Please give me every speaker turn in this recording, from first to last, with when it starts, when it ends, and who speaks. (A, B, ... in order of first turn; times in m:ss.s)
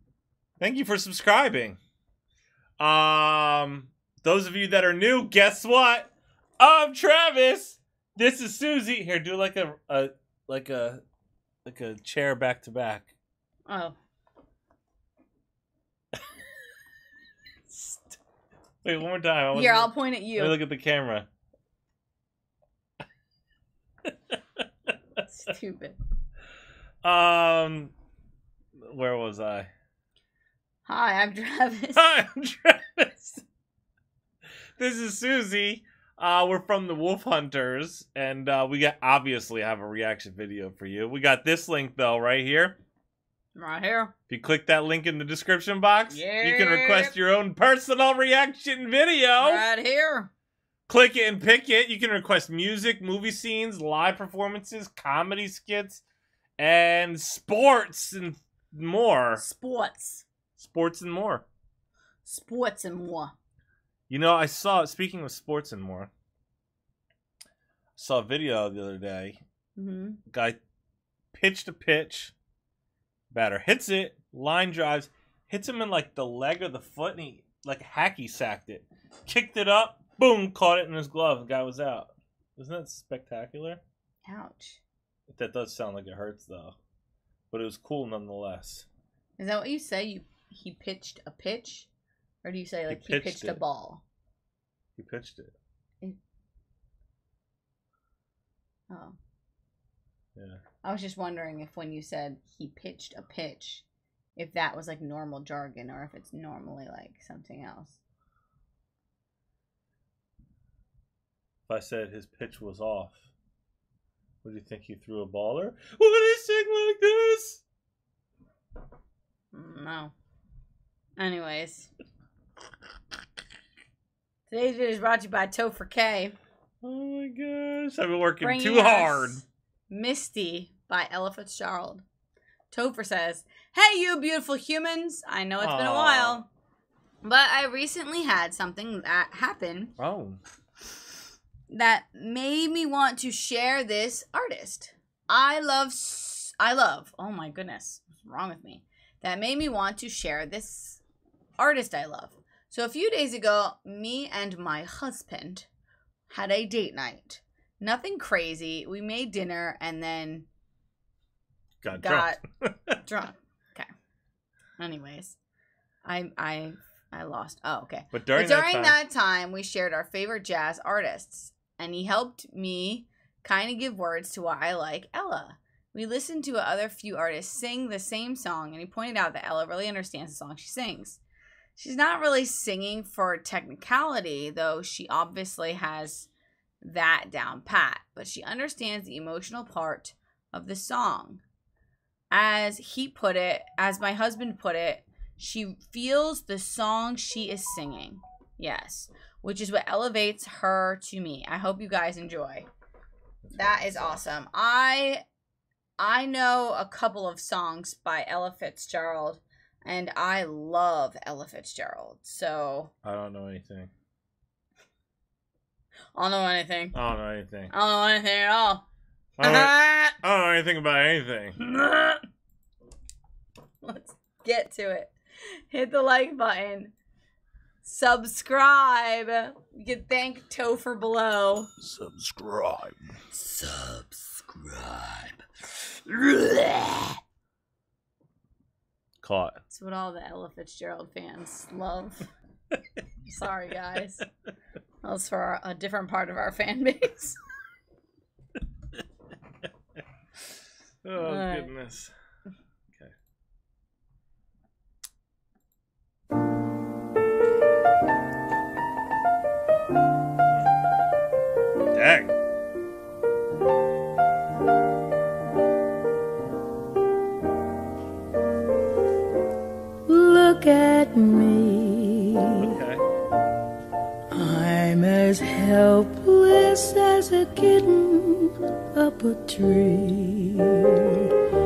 0:00.6-0:01.8 A
0:02.8-0:11.0 A
0:11.6-0:13.1 A
0:13.7-0:14.0 B
0:17.7-0:18.1 A
0:18.8-0:21.3 A
0:19.5-0:20.6 B
0:24.1-0:24.6 A
0:25.2-0:26.0 B
0:27.0-0:27.9 A
0:28.8-0:29.7 A
0:30.9-0:32.1 B
0:32.0-0:33.2 A
0:34.8-0:42.8 A
0:43.6-0:44.1 B
0:44.3-0:49.6 A
0:46.1-0:47.2 B
0:49.4-0:50.3 B
0:50.9-0:56.0 A
0:56.6-0:59.4 A
0:59.4-1:00.2 B
1:00.6-1:01.4 A
1:02.2-1:03.3 B
1:04.1-1:06.1 A
1:08.0-1:09.4 A
1:09.8-1:10.2 B
1:10.3-1:10.6 A
1:11.3-1:12.3 A
1:13.3-1:23.8 A
1:24.3-1:24.8 B
1:25.3-1:26.8 A
1:27.5-1:28.9 A
1:29.4-1:31.9 B
1:32.4-1:34.0 B
1:32.9-1:33.6 A
1:35.0-1:35.6 A
1:38.9-1:39.2 B
1:40.4-1:40.6 A
1:40.8-1:43.8 B
1:44.4-1:48.0 B
1:51.7-1:53.2 A
1:54.4-1:57.6 A
1:59.5-2:00.1 B
2:01.2-2:01.9 B
2:04.5-2:06.4 B
2:06.8-2:09.4 A
2:08.4-2:12.0 B
2:12.7-2:16.5 B
2:15.6-2:16.4 A
2:17.2-2:19.9 B
2:20.0-2:20.4 A
2:21.7-2:31.0 B
2:31.6-2:35.7 B
2:36.3-2:40.5 B
2:41.8-2:43.0 A
2:41.9-2:42.4 B
2:43.0-2:43.9 B
2:44.8-2:45.4 B
2:46.0-3:01.2 B
2:48.1-2:49.0 A
3:01.8-3:06.3 B
3:06.8-3:11.4 B
3:12.3-3:22.7 B
3:23.4-3:24.2 A
3:23.5-3:25.2 B
3:26.0-3:32.9 B
3:33.0-3:33.9 A
3:36.2-3:37.0 B
3:36.9-3:37.7 A
3:37.7-3:38.8 B
3:39.4-3:41.6 A
3:39.4-3:40.2 B
3:41.6-3:42.2 B
3:43.8-3:45.1 B
3:45.7-3:46.9 B
3:47.8-3:51.7 B
3:51.9-3:53.0 A
3:53.4-3:54.1 B
3:59.2-3:59.6 A
3:59.7-4:02.3 B
4:03.3-4:04.3 B
4:05.0-4:07.4 B
4:11.0-4:12.1 A
4:11.2-4:11.7 B
4:21.9-4:22.3 A
4:30.1-4:32.6 C
4:32.6-4:33.0 A
4:34.3-4:41.3 C